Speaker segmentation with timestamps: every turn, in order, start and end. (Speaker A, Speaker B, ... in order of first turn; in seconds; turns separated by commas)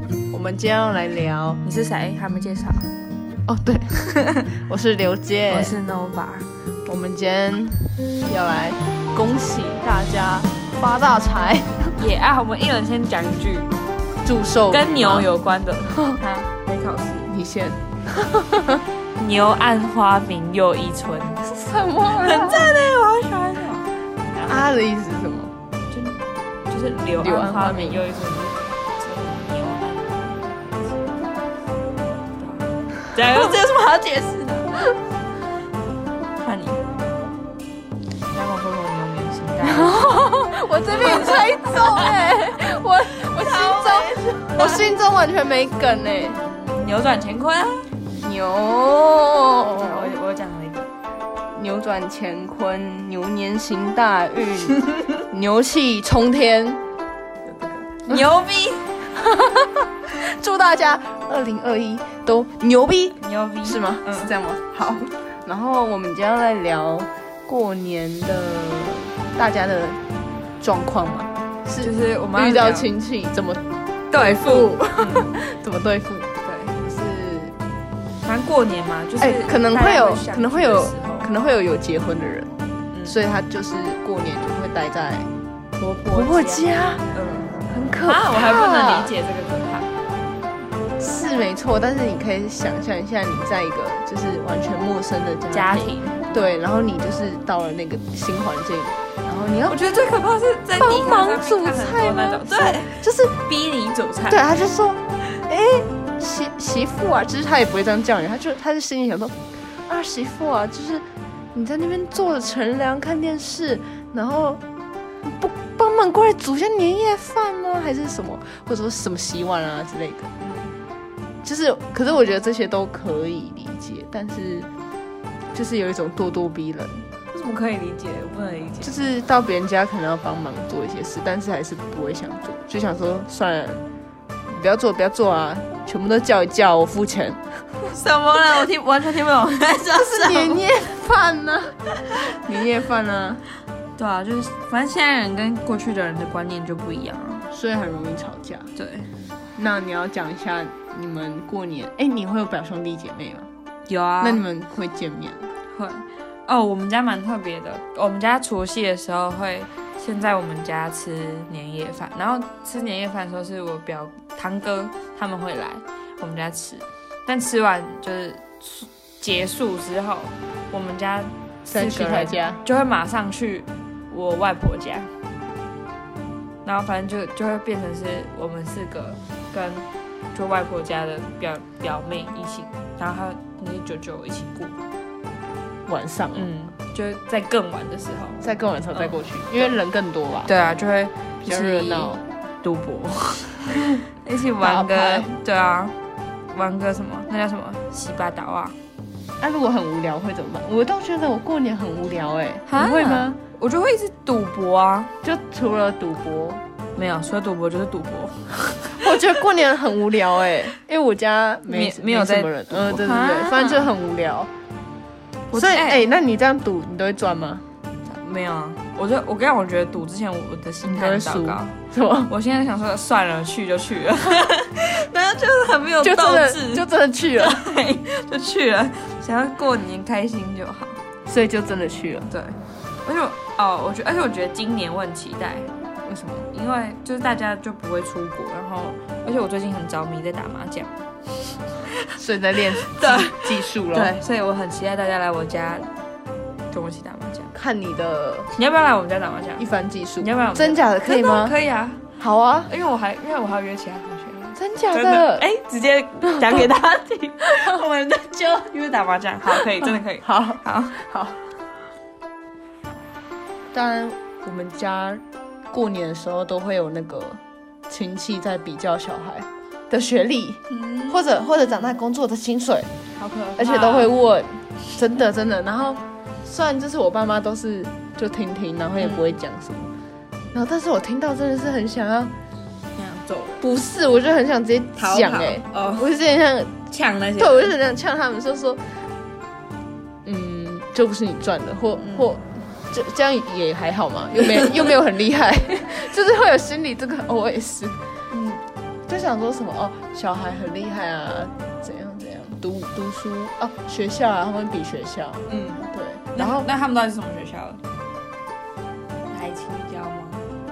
Speaker A: 0.3-1.6, Speaker B: 1.6-2.9, Speaker A: 3.5-3.9, Speaker B: 4.1-4.5, Speaker A: 4.5-5.8, Speaker B: 5.5-6.5, Speaker A: 6.8-11.9, Speaker B: 12.0-13.7, Speaker A: 14.2-15.3, Speaker B: 14.7-17.3, Speaker A: 15.9-16.2, Speaker A: 17.3-18.8, Speaker B: 19.2-21.4, Speaker A: 21.4-22.7, Speaker B: 22.1-24.7, Speaker A: 24.4-25.5, Speaker B: 25.9-31.2, Speaker A: 27.2-28.0, Speaker B: 32.4-34.8, Speaker B: 36.4-36.8, Speaker B: 38.3-42.3, Speaker A: 39.6-46.4, Speaker B: 43.3-44.9, Speaker B: 46.3-47.9, Speaker A: 48.1-50.1, Speaker B: 49.7-50.9, Speaker A: 51.5-56.8, Speaker B: 57.4-58.9, Speaker A: 59.1-70.0, Speaker B: 63.1-64.3, Speaker A: 70.6-73.6, Speaker B: 71.8-72.9, Speaker B: 74.1-75.3, Speaker A: 74.2-76.3, Speaker B: 76.4-76.8, Speaker A: 76.8-77.5, Speaker B: 78.2-81.3, Speaker A: 79.2-82.5, Speaker A: 83.0-85.3, Speaker B: 85.8-89.9, Speaker A: 86.1-87.0, Speaker A: 87.7-89.1, Speaker A: 91.0-99.8, Speaker B: 95.5-96.5, Speaker B: 99.7-104.5, Speaker A: 100.8-103.3, Speaker A: 104.3-114.6, Speaker A: 115.2-120.3, Speaker B: 120.4-120.8, Speaker A: 121.4-124.7, Speaker A: 125.5-127.1, Speaker B: 127.3-128.9, Speaker A: 128.8-133.8, Speaker A: 134.5-137.4, Speaker B: 137.8-140.6, Speaker A: 140.1-143.4, Speaker B: 144.0-147.4, Speaker A: 147.5-148.7, Speaker B: 148.8-149.1, Speaker A: 149.6-153.5, Speaker B: 153.8-154.4, Speaker A: 154.2-155.5, Speaker B: 155.7-175.1, Speaker A: 171.7-172.6, Speaker B: 176.6-184.8, Speaker A: 185.8-186.5, Speaker B: 186.3-189.8, Speaker A: 188.4-190.5, Speaker B: 190.4-195.9, Speaker A: 191.4-192.2, Speaker A: 194.6-195.3, Speaker B: 196.5-198.8, Speaker A: 199.4-203.4, Speaker B: 202.7-205.1, Speaker A: 205.2-206.6, Speaker B: 206.9-209.1, Speaker A: 208.9-214.5, Speaker B: 211.7-213.9, Speaker B: 215.5-216.0, Speaker A: 215.5-217.6, Speaker B: 218.1-231.0, Speaker A: 220.8-222.3, Speaker A: 226.0-227.6, Speaker A: 231.2-232.3, Speaker B: 232.3-235.7, Speaker A: 236.0-236.5, Speaker B: 236.5-240.9, Speaker A: 242.2-244.1, Speaker B: 242.8-245.9, Speaker B: 246.7-247.5, Speaker A: 247.5-248.5, Speaker B: 248.5-249.7, Speaker A: 249.6-251.6, Speaker B: 250.2-252.0, Speaker A: 252.2-252.7, Speaker B: 252.7-261.0, Speaker A: 254.5-255.4, Speaker A: 256.2-256.6, Speaker A: 259.6-261.4, Speaker A: 263.7-272.9, Speaker B: 270.7-271.9, Speaker B: 273.1-274.1, Speaker A: 273.6-279.9, Speaker B: 279.0-279.3, Speaker A: 280.5-282.3, Speaker B: 282.9-283.6, Speaker A: 283.6-286.8, Speaker B: 284.9-286.1, Speaker B: 286.9-287.7, Speaker A: 287.4-289.0, Speaker A: 290.2-298.0, Speaker B: 292.0-292.3, Speaker B: 294.4-294.9, Speaker B: 298.3-298.6, Speaker A: 299.1-306.7, Speaker B: 305.5-307.8, Speaker B: 309.3-310.4